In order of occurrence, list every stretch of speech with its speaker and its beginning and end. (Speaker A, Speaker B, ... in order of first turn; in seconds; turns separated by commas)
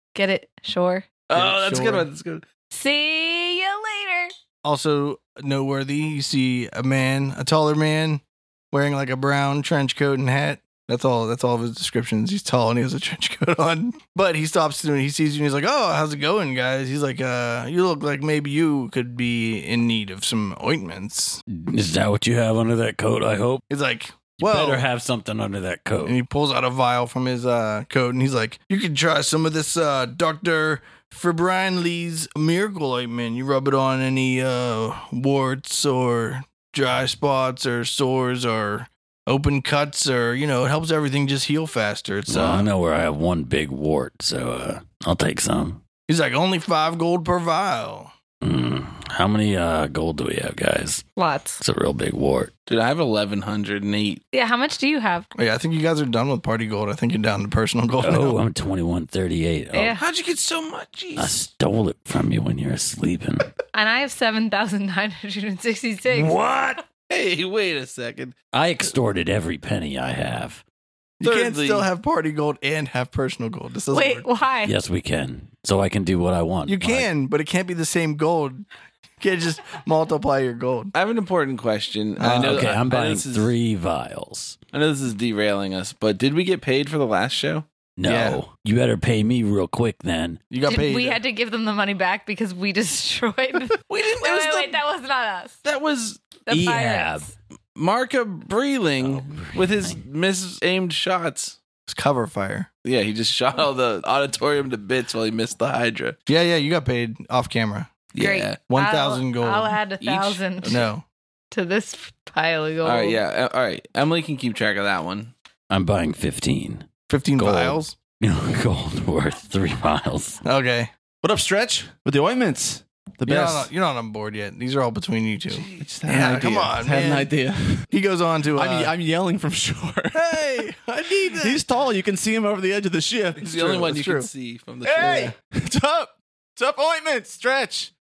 Speaker A: 0.1-1.1, Speaker B: 1.3-2.5, Speaker C: 1.3-2.1, Speaker A: 2.7-4.3, Speaker C: 4.6-21.4, Speaker D: 21.5-23.6, Speaker C: 23.7-24.9, Speaker D: 24.4-26.2, Speaker C: 26.0-42.7, Speaker D: 42.3-45.8, Speaker C: 46.1-48.1, Speaker D: 48.4-51.0, Speaker A: 51.2-51.6, Speaker D: 51.6-52.5, Speaker B: 52.7-54.2, Speaker A: 54.3-55.3, Speaker C: 55.4-58.4, Speaker D: 58.0-60.0, Speaker A: 59.7-60.0, Speaker B: 60.0-61.4, Speaker D: 61.2-63.5, Speaker A: 63.7-66.3, Speaker D: 66.1-66.8, Speaker B: 67.1-68.4, Speaker D: 68.5-70.6, Speaker C: 71.2-74.3, Speaker B: 71.2-71.9, Speaker A: 73.9-74.8, Speaker D: 74.6-77.1, Speaker C: 76.7-78.7, Speaker C: 79.2-80.9, Speaker B: 80.9-83.5, Speaker C: 82.2-82.8, Speaker D: 82.4-84.6, Speaker B: 84.7-87.7, Speaker D: 88.0-90.4, Speaker C: 88.0-88.4, Speaker C: 90.5-91.2, Speaker A: 90.7-95.6, Speaker B: 93.9-94.8, Speaker B: 95.6-96.2, Speaker A: 96.5-97.3, Speaker D: 96.5-97.3, Speaker B: 97.8-101.6, Speaker D: 99.0-100.0, Speaker C: 101.9-102.7, Speaker B: 102.8-106.2, Speaker C: 106.3-107.9, Speaker B: 108.1-108.6, Speaker A: 108.2-110.8, Speaker C: 108.7-109.8, Speaker B: 110.0-110.8, Speaker C: 110.7-111.0, Speaker A: 111.5-113.2, Speaker B: 112.8-115.3, Speaker D: 115.7-116.9, Speaker C: 117.1-118.0, Speaker D: 117.4-120.4, Speaker C: 120.5-120.9, Speaker E: 121.2-123.7, Speaker C: 123.2-127.3, Speaker E: 125.7-127.9, Speaker C: 127.9-128.9, Speaker E: 128.6-130.2, Speaker C: 130.1-131.6, Speaker E: 131.2-133.8, Speaker B: 133.4-135.3, Speaker C: 133.6-134.3, Speaker E: 134.8-137.9, Speaker C: 135.0-135.3